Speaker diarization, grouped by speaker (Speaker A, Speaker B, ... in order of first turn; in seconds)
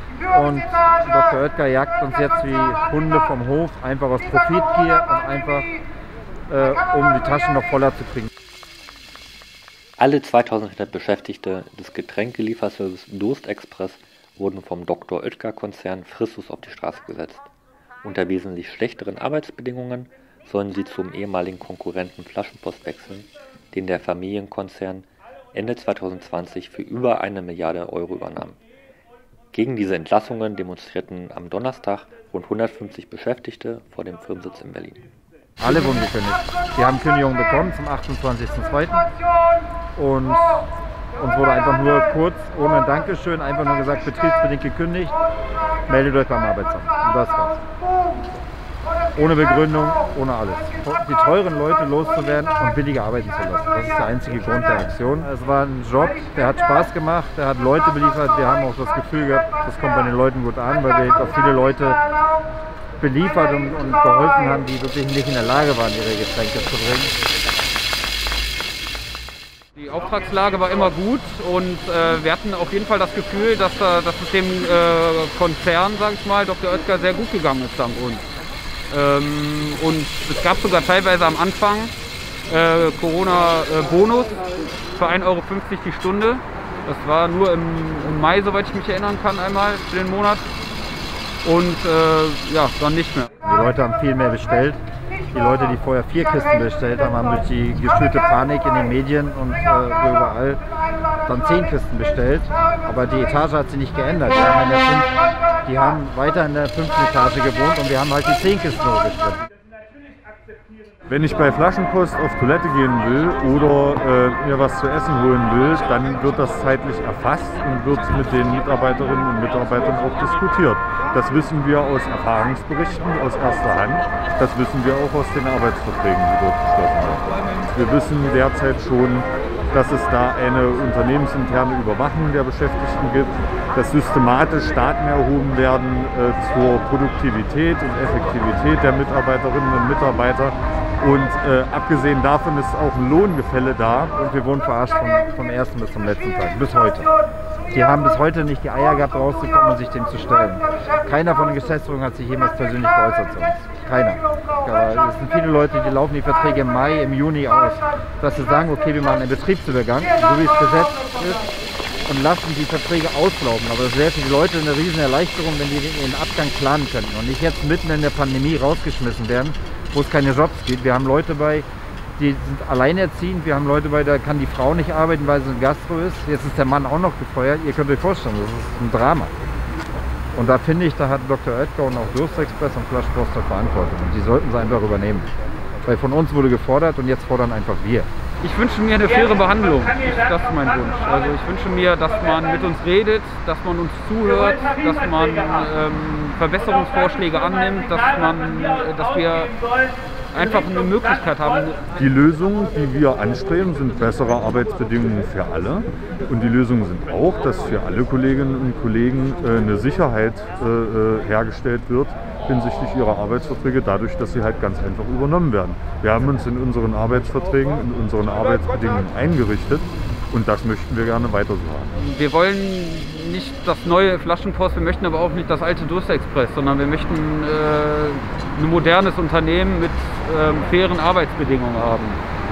Speaker A: 0.3-5.7, 6.5-8.3, 35.6-39.1, 40.0-40.7, 41.2-45.1, 45.9-47.6, 49.2-62.0, 63.0-67.2, 93.4-94.8, 95.3-100.6, 101.2-105.1, 105.7-109.5, 144.1-147.1, 147.7-161.4, 162.1-171.7, 172.2-179.3, 180.3-185.3, 185.8-188.1
Speaker B: 10.0-17.5, 18.0-28.6, 29.5-35.0
Speaker C: 69.8-78.2, 78.9-81.9, 82.5-84.4, 85.0-90.5, 91.4-93.3, 188.4-199.5, 200.3-201.8, 222.0-232.2
Speaker D: 111.1-144.1, 202.0-221.9